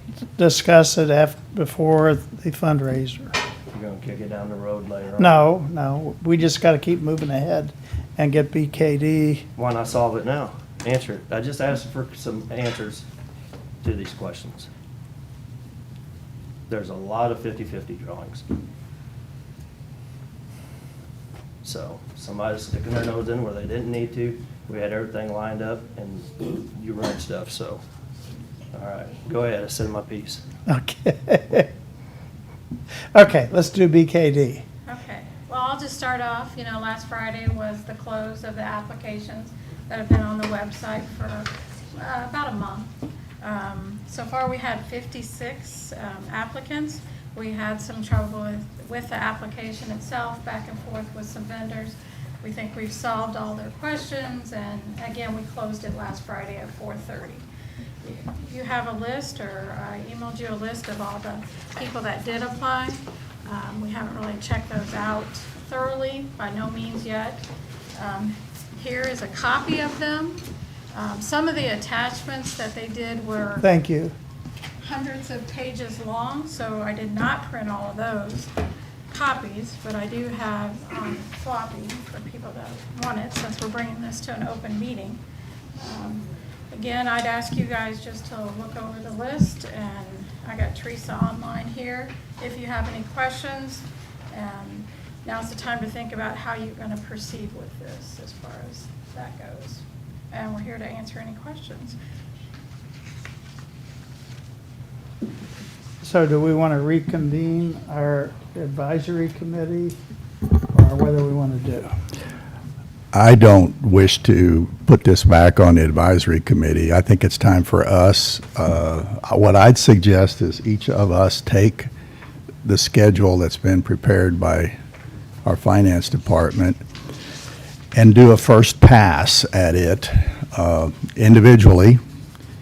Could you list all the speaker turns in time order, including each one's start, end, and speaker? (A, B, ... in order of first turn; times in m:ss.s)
0:00.4-0:03.3 A
0:03.7-0:05.4 B
0:05.2-0:09.4 A
0:09.6-0:13.0 B
0:13.8-0:14.7 B
0:16.7-0:18.4 B
0:21.6-0:27.8 B
0:28.7-0:30.4 B
0:30.7-0:31.7 A
0:33.1-0:34.6 A
0:34.8-0:42.9 C
0:43.4-0:57.4 C
0:58.0-1:07.4 C
1:08.0-1:10.4 C
1:10.9-1:13.6 C
1:13.6-1:14.1 A
1:14.8-1:18.5 C
1:19.1-1:25.2 C
1:25.8-1:42.0 C
1:46.0-1:50.0 A
1:50.7-1:51.9 A
1:53.1-2:01.9 D
2:02.6-2:04.7 D
2:05.4-2:06.8 D
2:07.9-2:12.0 D